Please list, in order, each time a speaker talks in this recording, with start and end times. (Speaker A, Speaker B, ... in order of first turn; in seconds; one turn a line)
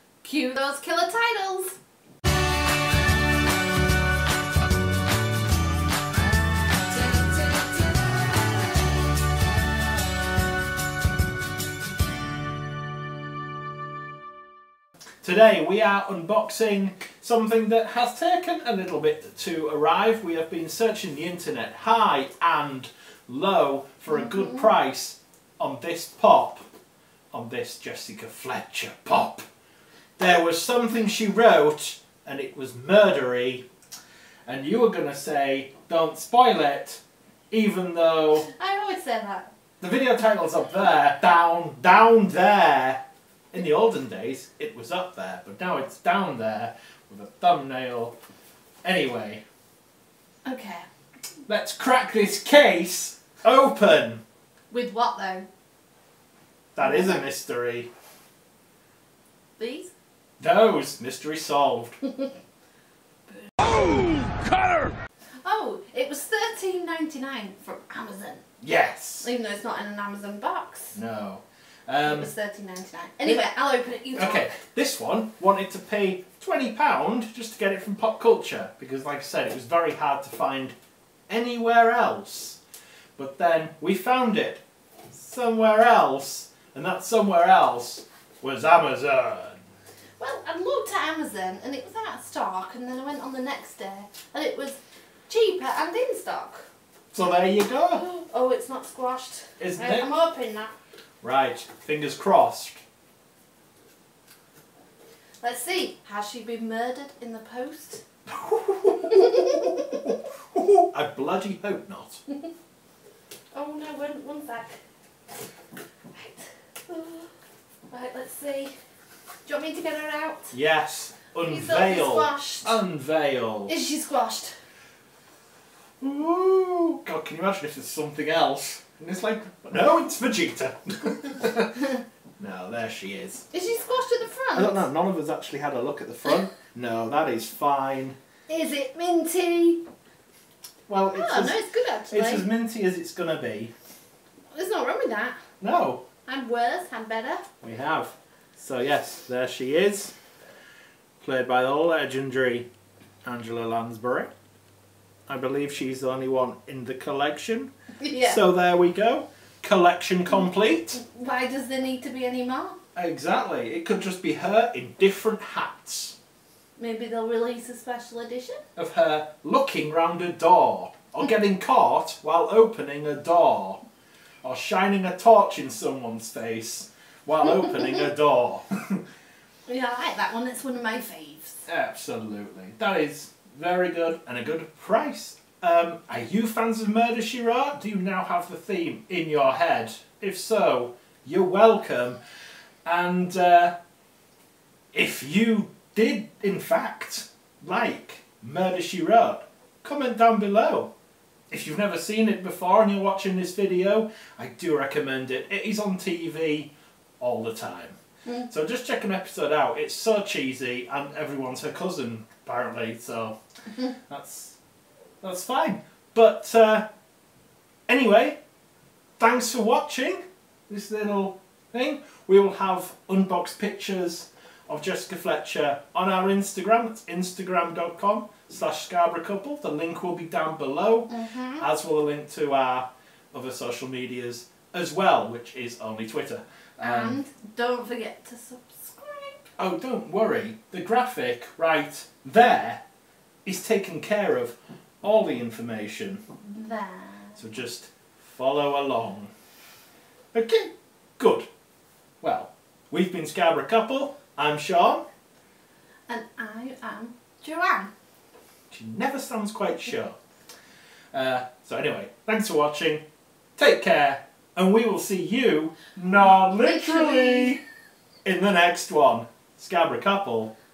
Speaker A: 0.2-1.8
Speaker A: 7.1-8.1
Speaker B: 15.2-26.6
Speaker A: 24.1-24.7
Speaker B: 27.3-29.4
Speaker B: 30.2-33.6
Speaker B: 34.5-38.5
Speaker A: 38.5-39.5
Speaker B: 39.8-43.0
Speaker B: 43.5-48.1
Speaker B: 48.8-49.4
Speaker A: 50.4-50.8
Speaker B: 51.5-54.2
Speaker A: 54.7-55.5
Speaker B: 56.7-57.9
Speaker A: 56.8-57.2
Speaker A: 59.6-59.9
Speaker B: 60.4-62.0
Speaker A: 62.0-62.3
Speaker A: 63.3-64.1
Speaker B: 63.6-64.9
Speaker A: 65.4-68.5
Speaker B: 68.6-69.3
Speaker A: 69.2-71.0
Speaker B: 70.9-72.3
Speaker A: 72.0-74.5
Speaker B: 74.2-80.7
Speaker B: 81.3-82.6
Speaker B: 83.2-89.6
Speaker A: 90.2-96.7
Speaker B: 97.1-98.0
Speaker A: 97.9-100.7
Speaker B: 99.6-100.1
Speaker B: 101.2-102.8
Speaker A: 105.4-108.0
Speaker B: 108.2-112.2
Speaker A: 109.1-110.0
Speaker A: 113.5-114.8
Speaker A: 116.1-117.3
Speaker A: 117.9-118.7
Speaker A: 119.5-120.5
Speaker B: 120.5-123.7
Speaker A: 121.4-122.8
Speaker A: 123.7-124.5
Speaker B: 126.0-133.4
Speaker A: 133.5-134.9
Speaker B: 134.5-138.2
Speaker A: 138.5-139.8
Speaker B: 140.9-143.7
Speaker A: 141.1-142.4
Speaker A: 144.5-145.4
Speaker B: 145.6-146.0
Speaker A: 146.2-147.4
Speaker B: 147.6-150.1
Speaker B: 151.2-152.7
Speaker B: 153.2-154.3
Speaker B: 155.3-161.0
Speaker A: 158.0-158.4
Speaker A: 160.9-162.8
Speaker B: 162.9-166.2
Speaker A: 166.8-168.6
Speaker B: 168.8-173.8
Speaker B: 174.4-179.0
Speaker A: 179.7-181.6
Speaker B: 181.7-192.2
Speaker B: 192.8-193.7
Speaker B: 194.9-200.9
Speaker B: 201.5-213.4
Speaker B: 213.9-214.6
Speaker B: 215.2-216.9
Speaker B: 217.9-218.4
Speaker B: 219.2-237.2
Speaker A: 231.1-231.7
Speaker A: 236.8-239.5
Speaker B: 239.6-242.8
Speaker B: 243.4-246.2
Speaker A: 246.5-247.4
Speaker B: 247.3-249.3
Speaker B: 250.3-251.5
Speaker B: 252.2-255.1
Speaker A: 256.1-257.9
Speaker B: 258.7-260.2
Speaker B: 261.1-263.0
Speaker B: 263.6-267.6
Speaker A: 266.6-267.6
Speaker B: 268.2-270.5